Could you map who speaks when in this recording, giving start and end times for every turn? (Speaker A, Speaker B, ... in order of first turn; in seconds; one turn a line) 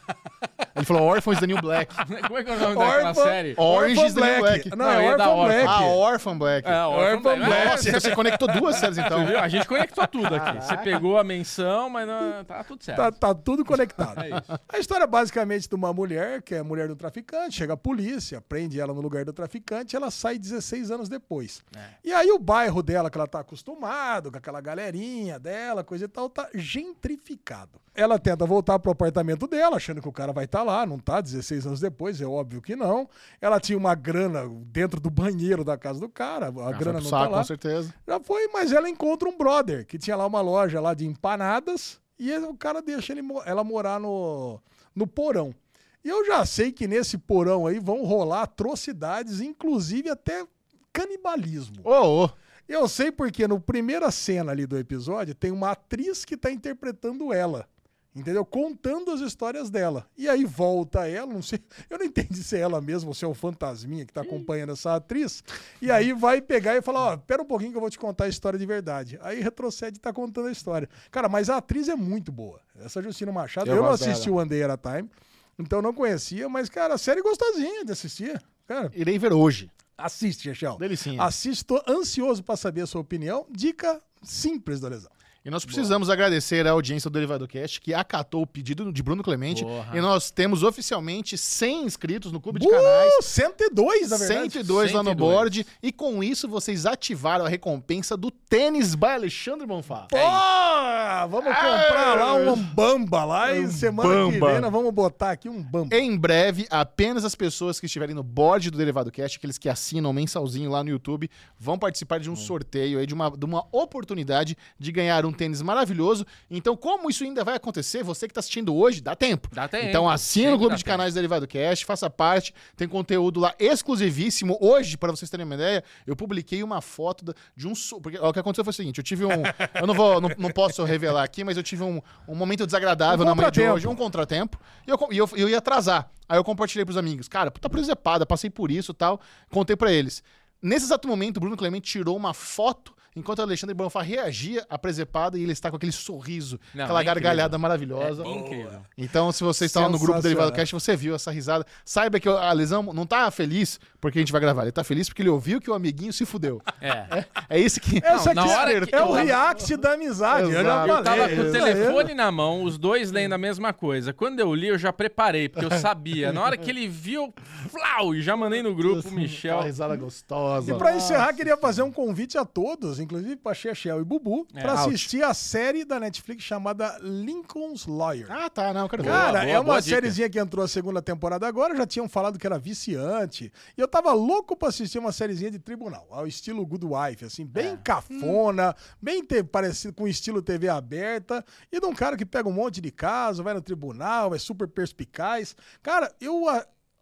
Speaker A: 0.8-2.0
Speaker B: 2.0-3.6
Speaker C: 2.6-6.0
Speaker A: 3.6-4.8
Speaker B: 4.8-5.9
Speaker A: 5.5-6.8
Speaker B: 6.6-8.1
Speaker C: 6.9-9.3
Speaker A: 7.4-9.4
Speaker B: 9.0-13.2
Speaker A: 10.2-11.0
Speaker C: 12.9-37.5
Speaker B: 14.2-14.5
Speaker A: 36.7-37.9
Speaker C: 38.1-51.9
Speaker A: 51.8-52.4
Speaker C: 52.7-79.0
Speaker A: 73.6-74.3
Speaker A: 78.9-79.7
Speaker C: 80.0-85.1
Speaker A: 80.8-81.3
Speaker A: 85.4-93.2
Speaker B: 89.5-90.1
Speaker C: 92.5-94.7
Speaker A: 94.1-100.2
Speaker B: 94.7-95.5
Speaker C: 100.1-106.0
Speaker B: 100.1-100.4
Speaker A: 101.4-102.7
Speaker A: 103.4-104.7
Speaker A: 105.9-148.3
Speaker B: 119.5-121.0
Speaker C: 133.1-134.0
Speaker B: 146.7-148.9
Speaker C: 148.2-148.7
Speaker A: 149.0-159.6
Speaker C: 149.6-150.7
Speaker B: 156.8-157.1
Speaker C: 158.0-162.1
Speaker B: 158.1-159.4
Speaker A: 160.3-162.1
Speaker B: 160.8-169.7
Speaker A: 165.6-165.8
Speaker A: 168.8-171.3
Speaker C: 170.6-178.4
Speaker B: 170.8-171.1
Speaker B: 174.5-174.9
Speaker A: 174.7-175.1
Speaker A: 178.3-179.3
Speaker B: 179.0-180.2
Speaker C: 179.0-196.7
Speaker B: 187.6-187.8
Speaker A: 188.1-188.4